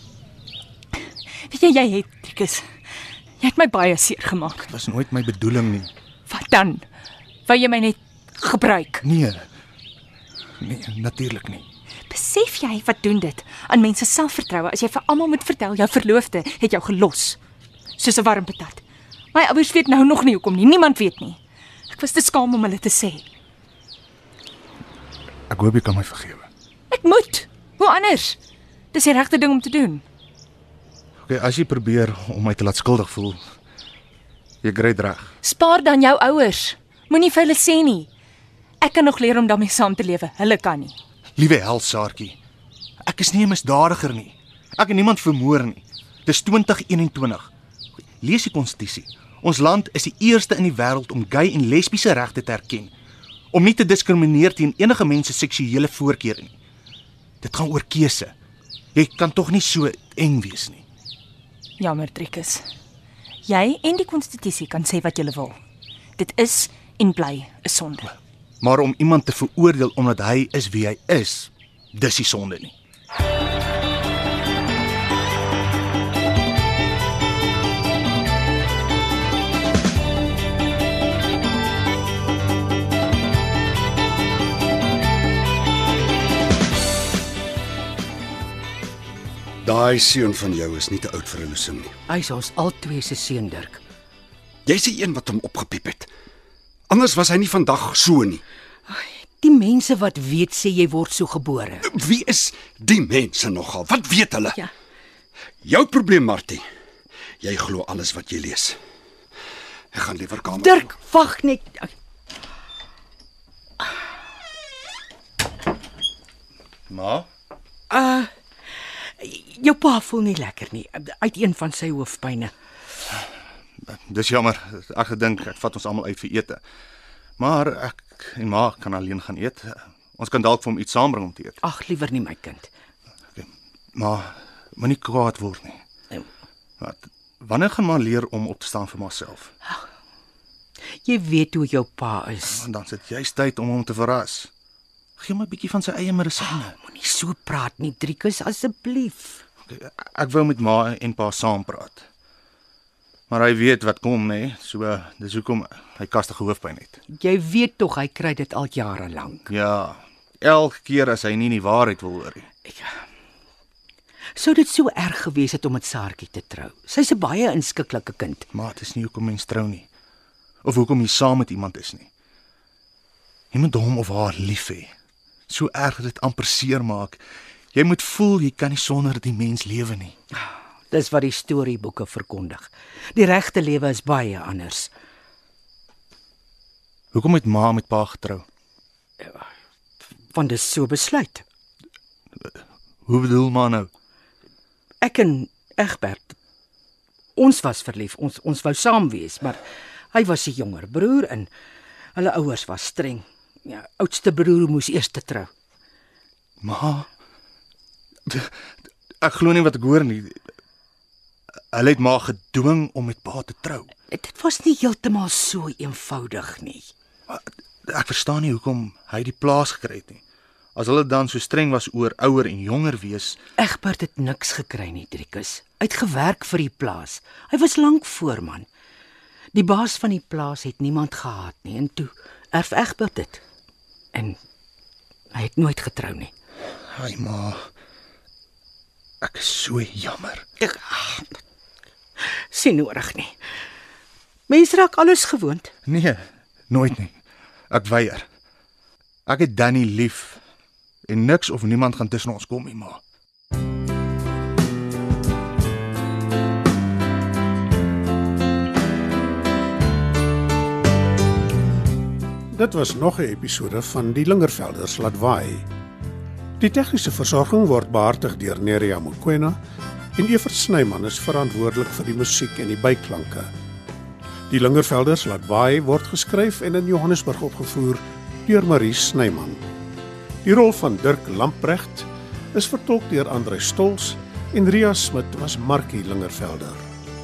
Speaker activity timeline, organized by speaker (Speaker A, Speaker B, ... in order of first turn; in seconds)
Speaker A: 1.4-2.6, 3.4-4.7, 6.3-6.8, 7.5-9.0, 12.1-17.4, 18.0-18.8, 19.3-23.2, 26.9-28.4, 28.9-30.0, 35.4-38.1, 38.8-41.0, 61.8-62.6, 63.5-65.6, 66.2-68.1
Speaker B: 4.6-5.9, 9.0-9.4, 10.6-11.7, 25.5-26.5, 31.3-33.4, 34.6-35.3, 41.4-42.4, 43.0-47.5, 48.2-52.9, 53.5-56.5, 57.4-58.3, 59.0-60.8, 68.6-72.7, 116.9-117.3, 123.8-126.6, 127.4-131.6, 133.3-135.8, 136.8-139.5, 142.5-144.5, 145.2-146.8, 149.7-152.1, 153.3-157.0, 159.5-162.5, 168.5-169.9, 170.6-172.1, 173.5-174.9, 175.5-177.2, 177.7-180.2, 187.1-188.4, 192.4-193.9, 206.6-207.1, 208.3-208.6, 209.2-210.4, 211.7-213.9, 217.3-220.2, 220.8-223.4, 236.9-237.7, 239.2-240.5, 245.9-247.2, 247.7-248.2, 249.3-250.4, 251.1-253.0
Speaker C: 89.6-92.0, 94.7-96.1, 96.9-98.4, 101.8-104.6, 105.6-106.7, 107.4-108.8, 109.9-110.9
Speaker D: 92.1-93.8, 98.9-101.9, 110.4-111.9, 117.9-118.3, 119.0-122.5, 131.6-132.7, 141.1-142.7, 146.4-149.4, 157.1-159.5, 162.7-163.0, 164.3-168.5, 180.4-184.9, 190.3-191.4, 195.0-196.4, 197.4-201.5, 202.2-205.5, 214.1-216.9, 223.6-228.7, 229.5-233.4, 234.1-234.4, 235.3-236.3, 240.6-241.4, 242.2-243.3, 244.5-245.7
Speaker E: 262.5-265.7, 266.6-269.6, 270.2-273.5, 274.5-279.6, 280.4-286.8